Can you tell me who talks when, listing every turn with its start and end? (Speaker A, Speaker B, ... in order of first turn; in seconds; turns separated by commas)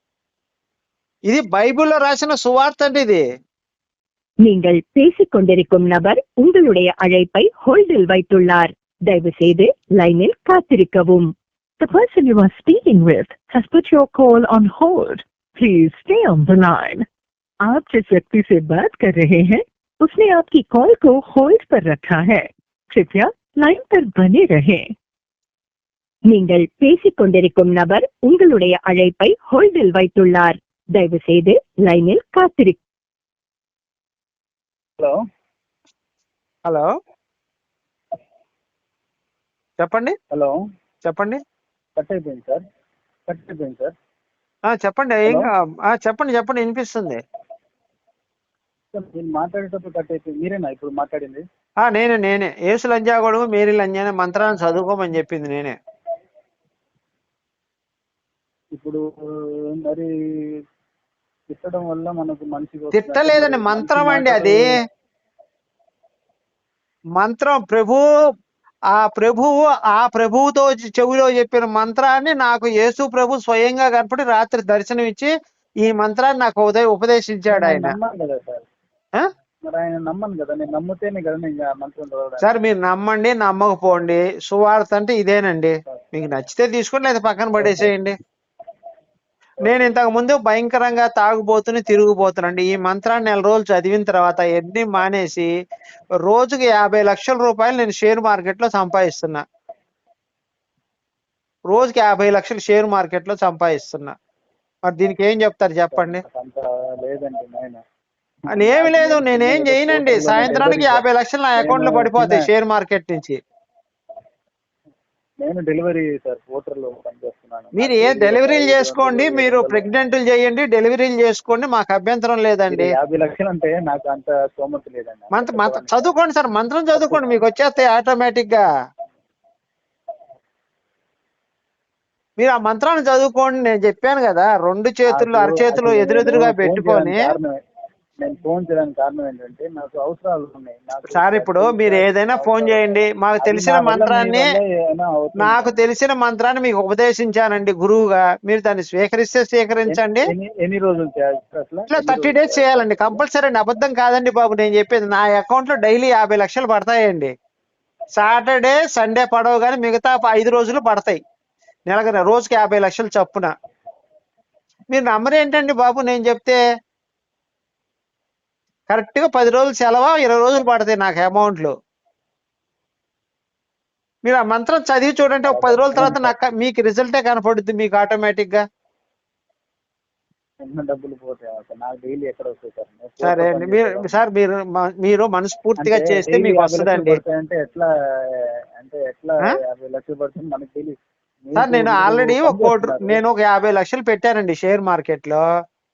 Speaker A: 1.3-3.2, Speaker B: 4.5-17.1, Speaker B: 17.7-24.9, Speaker B: 26.3-32.8, Speaker A: 39.8-40.2, Speaker A: 41.0-41.4, Speaker C: 42.0-42.6, Speaker C: 43.3-43.9, Speaker A: 44.7-47.2, Speaker C: 48.9-51.4, Speaker A: 51.8-55.8, Speaker C: 58.7-59.0, Speaker C: 59.8-60.1, Speaker C: 61.5-64.6, Speaker A: 62.9-64.7, Speaker A: 67.2-68.0, Speaker A: 68.9-75.3, Speaker A: 75.8-77.9, Speaker C: 77.5-78.7, Speaker C: 79.7-82.5, Speaker A: 82.4-88.2, Speaker C: 87.6-87.9, Speaker A: 89.6-95.5, Speaker A: 96.2-99.4, Speaker A: 101.7-104.1, Speaker A: 104.8-106.2, Speaker C: 106.0-107.8, Speaker A: 108.5-113.4, Speaker C: 108.6-111.0, Speaker C: 111.6-112.4, Speaker C: 115.4-119.9, Speaker A: 117.8-122.9, Speaker C: 122.7-126.1, Speaker A: 125.3-128.6, Speaker C: 126.9-127.4, Speaker A: 132.4-137.2, Speaker C: 135.1-137.5, Speaker C: 138.2-145.8, Speaker A: 141.1-144.6, Speaker A: 145.4-150.2, Speaker C: 149.9-153.2, Speaker A: 151.9-157.3, Speaker A: 158.2-161.2, Speaker A: 161.9-163.5, Speaker A: 164.9-166.6, Speaker A: 168.9-171.7, Speaker A: 174.2-178.6, Speaker C: 175.4-176.3, Speaker C: 180.6-184.2, Speaker A: 183.2-187.1, Speaker C: 185.8-187.9, Speaker C: 188.8-193.2, Speaker A: 191.6-195.4